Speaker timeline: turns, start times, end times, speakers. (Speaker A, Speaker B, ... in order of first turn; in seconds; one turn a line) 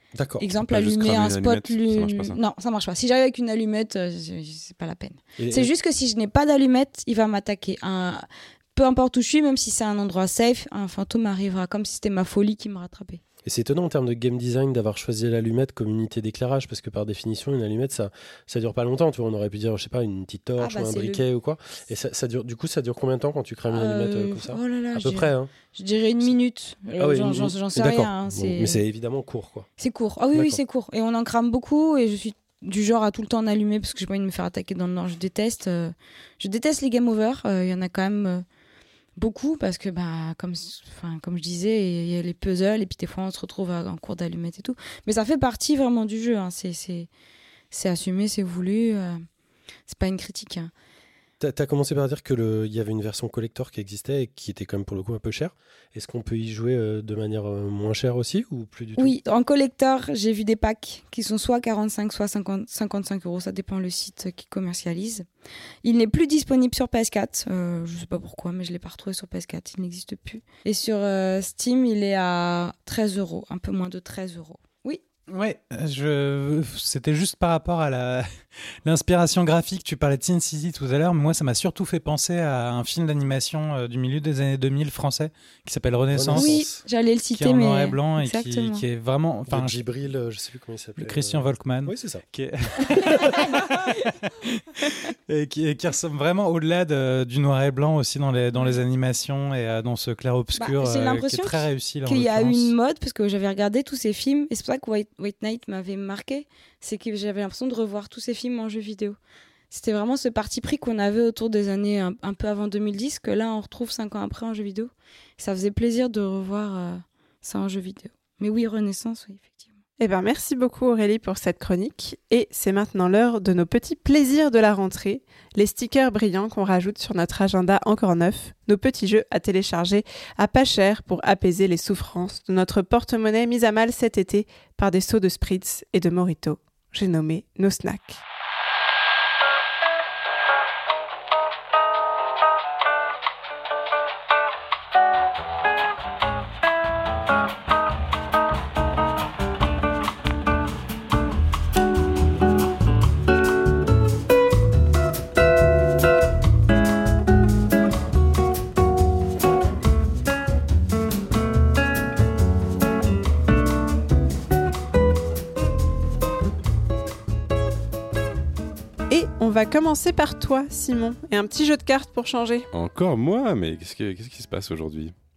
Speaker A: 0.1-0.5
Speaker B: 0.4-13.2
Speaker C: 0.6-2.4
Speaker A: 5.4-5.7
Speaker A: 13.4-25.5
Speaker B: 20.6-21.2
Speaker B: 23.7-28.8
Speaker A: 27.0-29.7
Speaker B: 29.8-38.4
Speaker A: 30.3-30.6
Speaker B: 39.1-47.1
Speaker B: 47.7-49.2
Speaker B: 49.9-50.7
Speaker A: 51.4-59.2
Speaker B: 59.0-65.3
Speaker B: 65.8-75.0
Speaker D: 75.3-78.3
Speaker D: 78.8-86.5
Speaker A: 86.1-86.8
Speaker B: 86.3-88.8
Speaker D: 87.3-89.8
Speaker A: 89.5-92.2
Speaker D: 91.0-102.7
Speaker B: 100.5-109.2
Speaker B: 109.7-119.7
Speaker E: 120.0-138.2
Speaker E: 169.1-172.7
Speaker C: 172.7-175.1